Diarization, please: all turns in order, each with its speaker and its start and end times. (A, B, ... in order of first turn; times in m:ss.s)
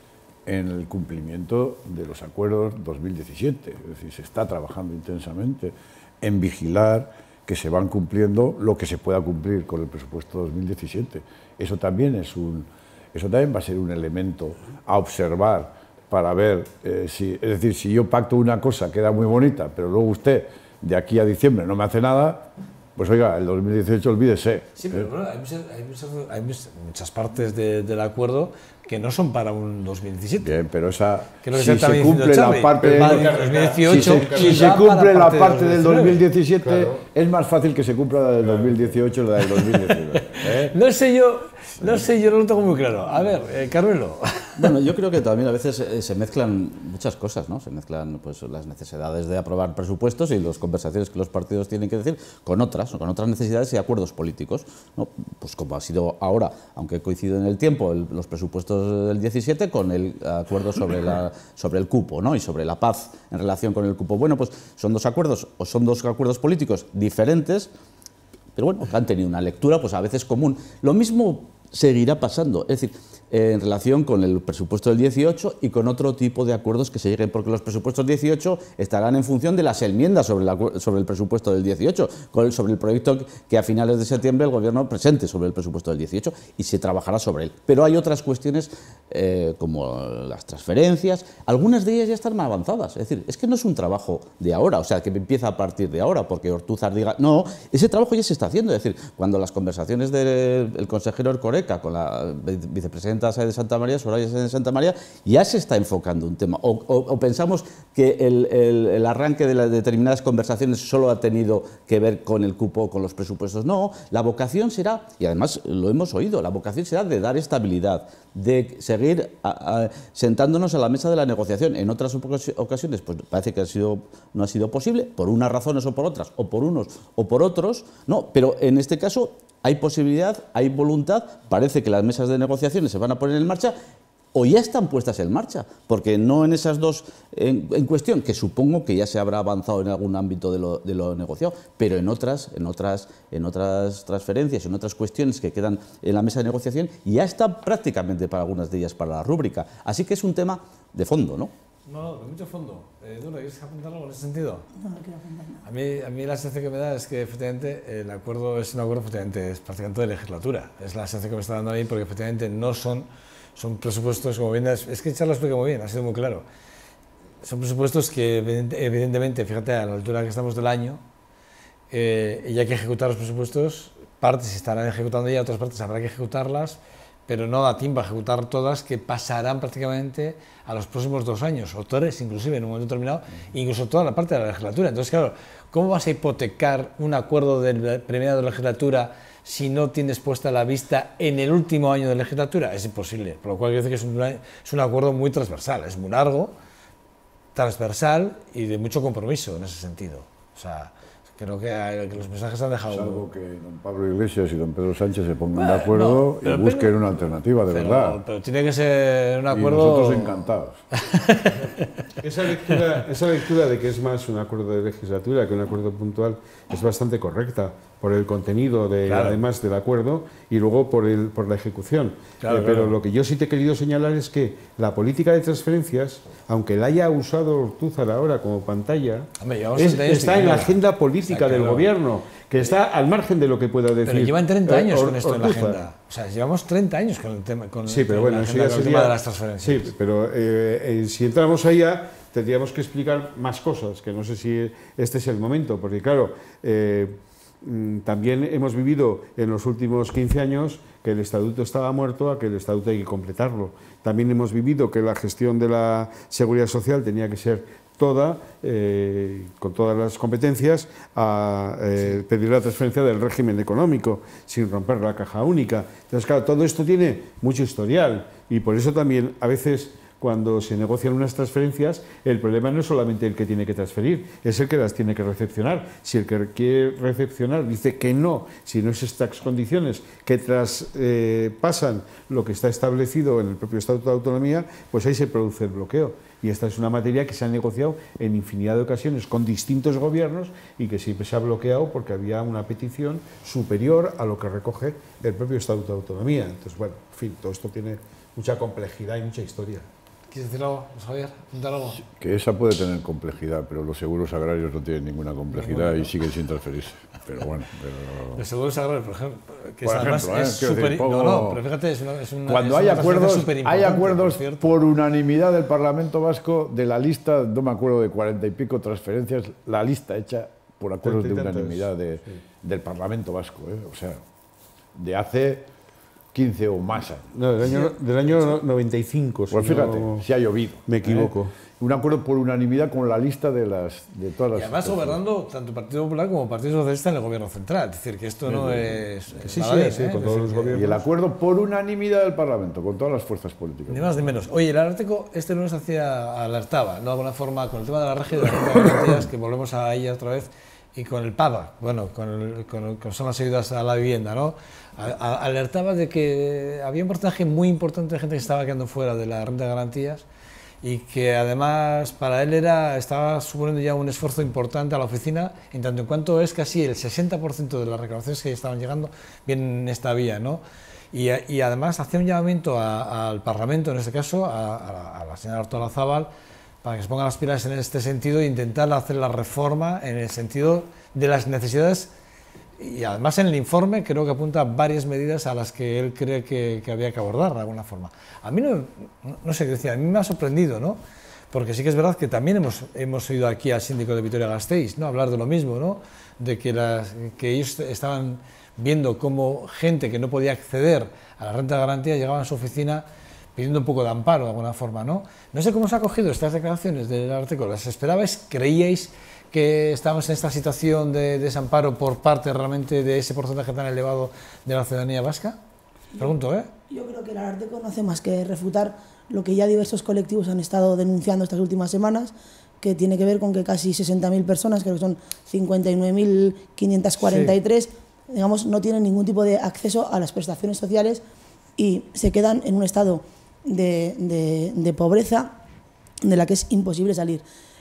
0:00.4-0:25.1 A
0:24.8-0:30.5 B
0:30.4-0:40.7 A
0:31.4-0:36.2 B
0:32.8-0:34.8 C
0:36.6-0:37.0 C
0:38.4-0:38.8 C
0:39.4-0:44.7 B
0:44.6-1:07.7 D
1:08.5-2:13.7 D
2:14.3-2:31.5 D
2:31.8-2:34.7 B
2:34.8-2:35.6 E
2:35.6-2:46.4 B
2:47.4-2:51.0 B
2:51.9-3:16.5 B
3:17.5-3:23.2 B
3:22.9-3:28.2 A
3:25.5-3:26.9 B
3:27.7-3:30.4 B
3:29.5-3:30.8 A
3:30.9-3:31.9 B
3:32.2-3:55.8 C
3:39.0-3:39.4 B
3:42.4-3:42.9 B
3:49.4-3:51.9 B
3:54.0-3:59.9 B
3:57.8-4:59.8 C
5:00.3-5:02.0 B
5:02.0-5:08.4 A
5:05.5-5:06.1 B
5:08.3-5:14.7 B
5:09.8-5:11.6 A
5:12.5-5:24.2 A
5:21.0-5:21.9 C
5:24.9-5:25.6 A
5:26.3-5:27.3 A
5:27.3-5:30.2 C
5:29.5-5:35.2 A
5:30.8-5:31.5 C
5:34.5-5:40.8 B
5:38.5-5:38.9 A
5:39.4-5:41.0 C
5:40.7-5:44.1 A
5:43.9-6:00.2 B
6:00.8-6:16.3 B
6:16.8-6:22.1 B
6:22.8-6:31.0 B
6:31.5-6:43.0 B
6:43.6-6:55.6 B
6:56.2-6:56.7 B
6:56.9-7:11.2 E
7:07.2-7:07.5 B
7:11.8-7:15.5 E
7:16.2-7:17.4 E